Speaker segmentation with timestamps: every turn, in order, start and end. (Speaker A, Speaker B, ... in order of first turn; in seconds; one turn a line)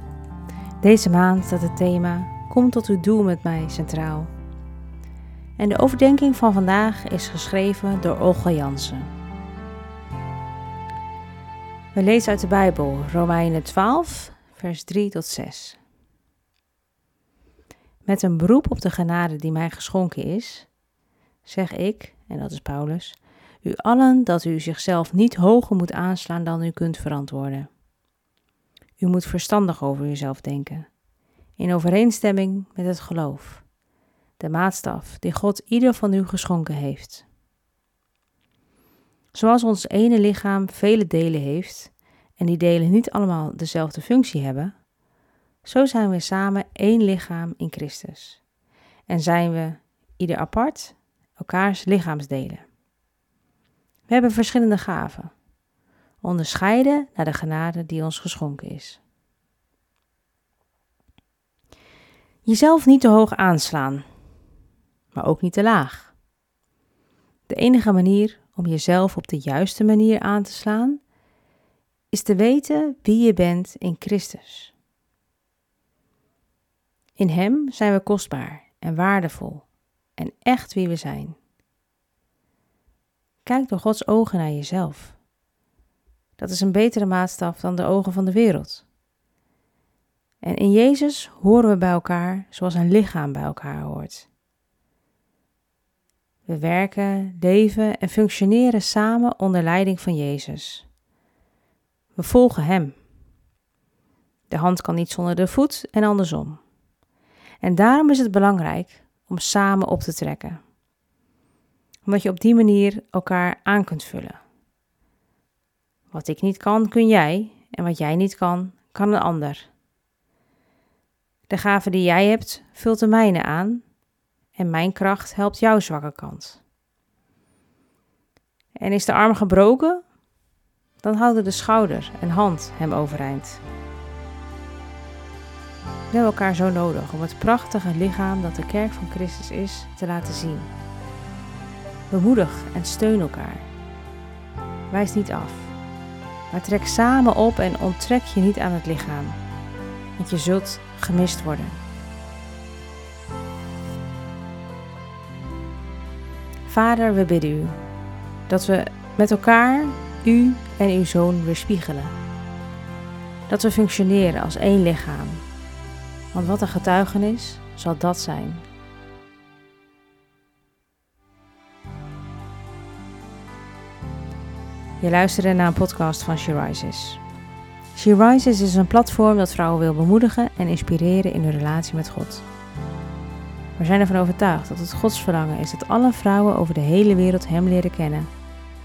Speaker A: 0.8-4.3
Speaker A: 5.6-9.1
Speaker A: 11.9-15.8
Speaker A: 18.1-20.7
Speaker A: 21.4-27.7
Speaker A: 29.0-30.9
Speaker A: 31.6-33.6
Speaker A: 34.4-37.2
Speaker A: 39.3-44.7
Speaker A: 45.6-48.4
Speaker A: 49.1-52.6
Speaker A: 54.1-55.3
Speaker A: 56.2-59.0
Speaker A: 62.5-64.0
Speaker A: 65.1-66.1
Speaker A: 67.5-71.0
Speaker A: 72.1-74.7
Speaker A: 77.2-79.7
Speaker A: 80.2-81.4
Speaker A: 83.5-85.2
Speaker A: 86.4-88.8
Speaker A: 90.4-94.3
Speaker A: 96.5-100.9
Speaker A: 102.2-103.0
Speaker A: 104.5-106.6
Speaker A: 107.6-110.6
Speaker A: 112.1-114.4
Speaker A: 116.1-119.7
Speaker A: 121.5-123.8
Speaker A: 124.6-126.6
Speaker A: 128.8-130.0
Speaker A: 131.0-133.6
Speaker A: 136.1-140.7
Speaker A: 142.1-143.7
Speaker A: 144.9-145.7
Speaker A: 146.5-149.4
Speaker A: 150.2-151.8
Speaker A: 156.7-157.8
Speaker A: 158.5-162.2
Speaker A: 163.5-165.4
Speaker A: 166.3-168.7
Speaker A: 175.0-177.2
Speaker A: 178.0-182.4
Speaker A: 183.8-188.3